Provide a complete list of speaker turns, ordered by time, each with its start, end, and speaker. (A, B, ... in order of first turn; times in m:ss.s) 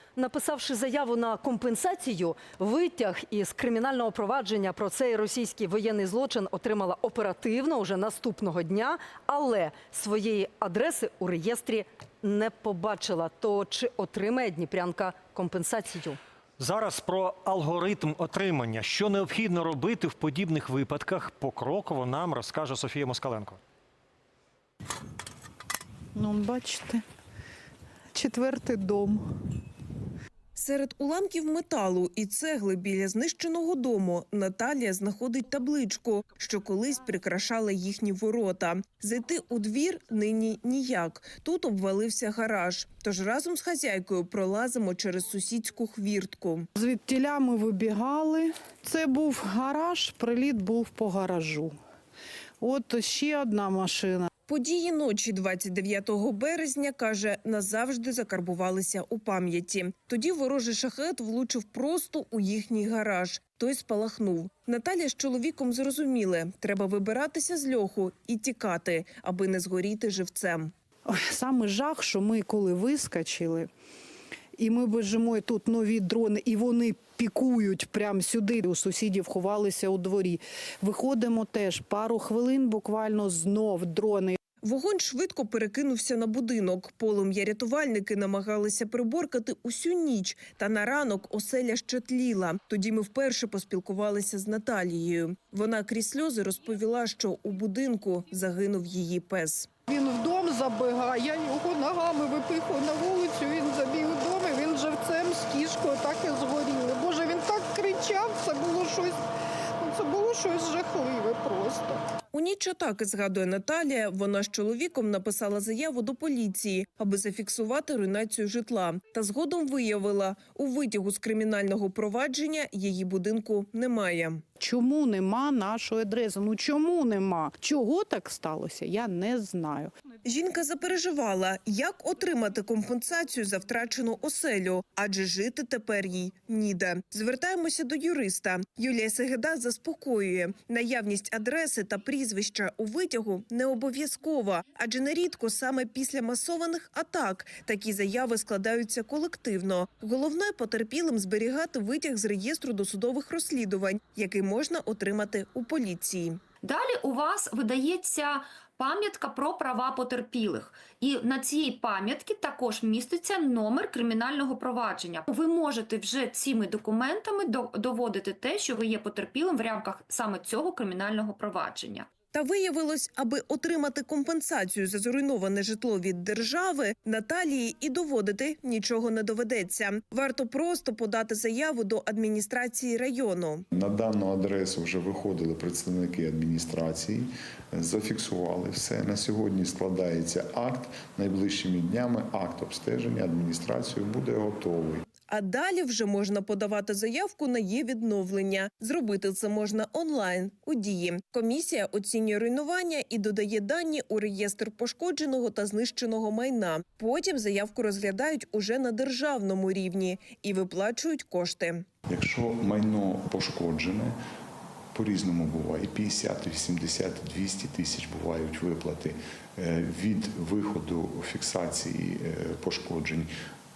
0:00.2-0:17.1 A
0:16.6-0:23.6 B
0:26.2-0:27.0 C
0:28.1-0:29.3 C
0:30.6-0:46.7 D
0:46.8-0:51.8 C
0:52.6-0:54.3 C
0:54.5-1:10.7 D
1:11.1-1:13.7 C
1:14.6-1:24.4 C
1:24.6-1:39.7 D
1:39.9-1:49.2 C
1:49.8-1:52.0 C
1:52.3-2:04.4 D
2:04.6-2:09.9 C
2:10.3-2:36.4 D
2:36.6-2:52.1 E
2:52.3-3:03.6 D
3:03.7-3:15.1 F
3:15.3-3:31.9 D
3:32.1-3:34.2 F
3:34.9-3:43.3 F